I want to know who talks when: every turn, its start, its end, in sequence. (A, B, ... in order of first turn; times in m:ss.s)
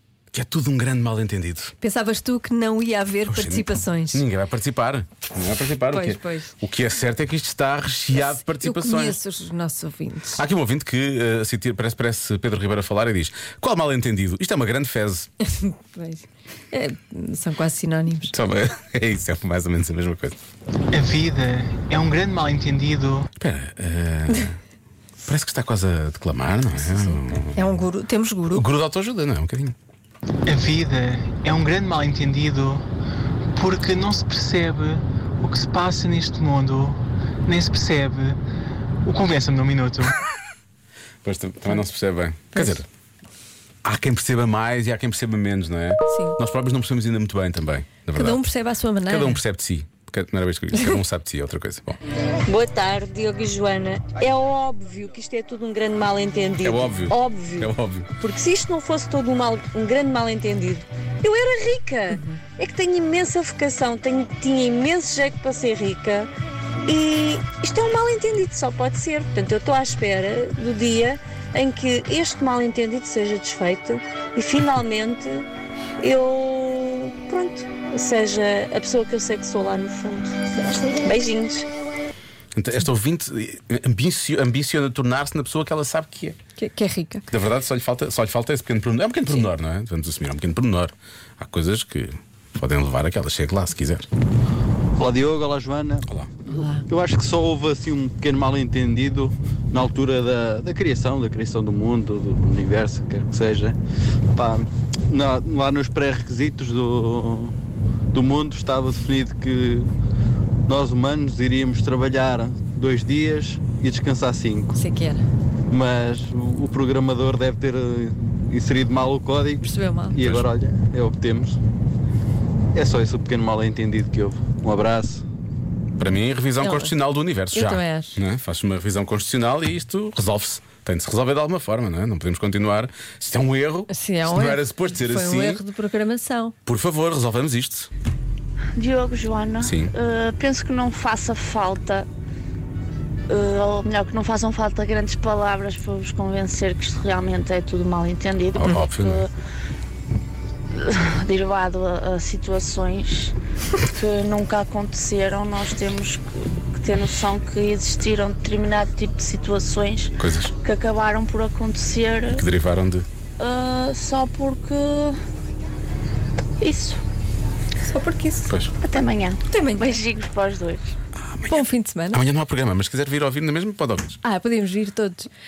0:00.3-0:01.7 A
0:01.8-0:04.2 B
0:03.3-0:09.2 A
0:05.9-0:06.5 B
0:08.1-0:10.4 B
0:10.4-0:15.3 A
0:15.5-0:18.3 B
0:18.3-0:20.4 A
0:20.9-0:23.3 C
0:23.4-0:24.6 A
0:25.2-0:27.7 A
0:26.8-0:28.6 B
0:28.5-0:29.7 A
0:30.4-0:32.8 C
0:33.5-0:38.4 C
0:39.0-0:40.2 C
0:41.2-0:42.8 A
0:42.5-0:42.8 B
0:43.8-0:48.4 A
0:46.1-0:46.4 B
0:48.1-0:49.4 B
0:49.0-0:52.0 A
0:52.4-0:57.7 D
0:56.6-0:58.1 A
0:58.2-1:06.3 D
1:02.1-1:02.4 B
1:06.8-1:15.4 D
1:16.0-1:21.6 D
1:22.5-1:26.4 A
1:26.6-1:27.3 B
1:27.3-1:34.1 A
1:35.0-1:36.0 E
1:36.5-1:36.9 B
1:36.9-1:43.8 E
1:44.3-1:47.5 E
1:48.1-1:49.9 E
1:50.7-1:54.8 E
1:54.7-1:55.2 B
1:55.7-2:01.6 E
1:59.6-2:00.2 B
2:00.2-2:00.5 A
2:02.7-2:05.2 E
2:06.0-2:15.6 A
2:06.6-2:06.9 B
2:07.5-2:08.2 B
2:13.9-2:16.5 B
2:16.6-2:17.9 A
2:18.8-2:22.1 F
2:19.6-2:19.9 A
2:23.3-2:29.3 F
2:28.5-2:29.3 A
2:30.7-2:33.3 F
2:33.9-2:42.4 F
2:40.2-2:40.5 A
2:42.3-2:43.0 A
2:43.4-2:45.2 F
2:46.6-2:47.0 F
2:47.8-2:48.5 B
2:48.5-2:48.7 A
2:48.8-2:50.9 F
2:49.5-2:50.0 B
2:51.2-2:54.2 A
2:51.5-2:52.2 B
2:54.2-2:55.3 B